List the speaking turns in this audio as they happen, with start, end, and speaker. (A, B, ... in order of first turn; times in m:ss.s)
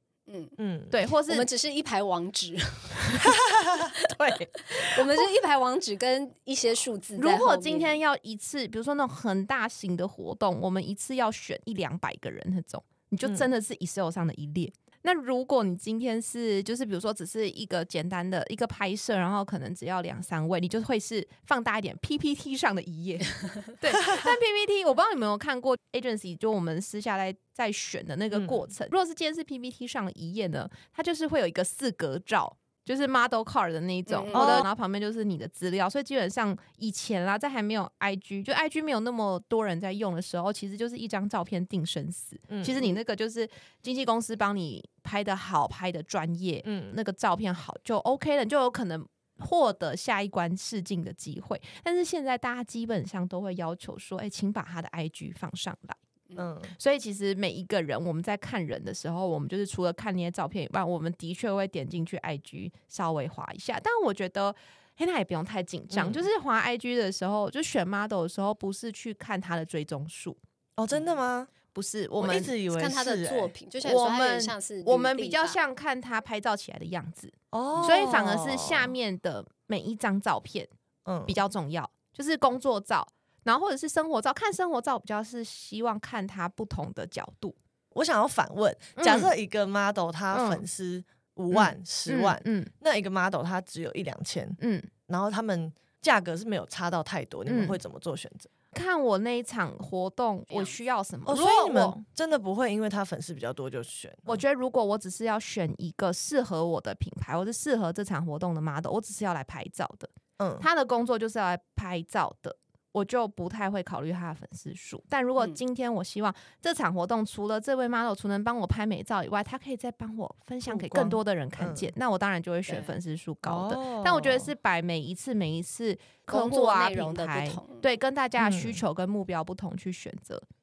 0:00.3-0:00.5 A
0:00.6-0:00.9 B
0:00.9-0:01.5 C
0:01.2-0:03.2 A
0:03.0-0:03.3 C
0:03.2-0:03.9 B
0:04.0-0:05.2 C
0:04.7-0:08.0 A
0:07.2-0:56.0 C
0:28.3-0:28.7 B
0:34.1-0:34.6 A
0:34.3-0:34.7 B
0:42.5-0:42.8 B
0:46.6-0:47.0 B
0:56.4-0:56.8 B
0:56.8-1:10.4 C
1:05.9-1:06.2 B
1:10.8-1:11.5 B
1:11.7-1:12.5 C
1:12.2-1:13.5 B
1:12.7-1:15.6 A
1:13.8-1:20.7 C
1:17.5-1:18.9 B
1:21.0-1:21.4 B
1:21.3-1:27.6 C
1:27.9-1:38.5 B
1:29.0-1:29.3 C
1:30.3-1:30.6 C
1:31.5-1:32.7 C
1:34.6-1:34.9 C
1:37.5-1:37.8 C
1:38.7-1:42.0 C
1:40.5-1:40.8 A
1:41.3-1:44.4 B
1:44.3-2:10.4 C
1:50.4-1:50.6 B
2:00.7-2:01.9 B
2:02.7-2:03.0 A
2:03.4-2:04.5 B
2:06.3-2:07.9 A
2:08.4-2:08.8 B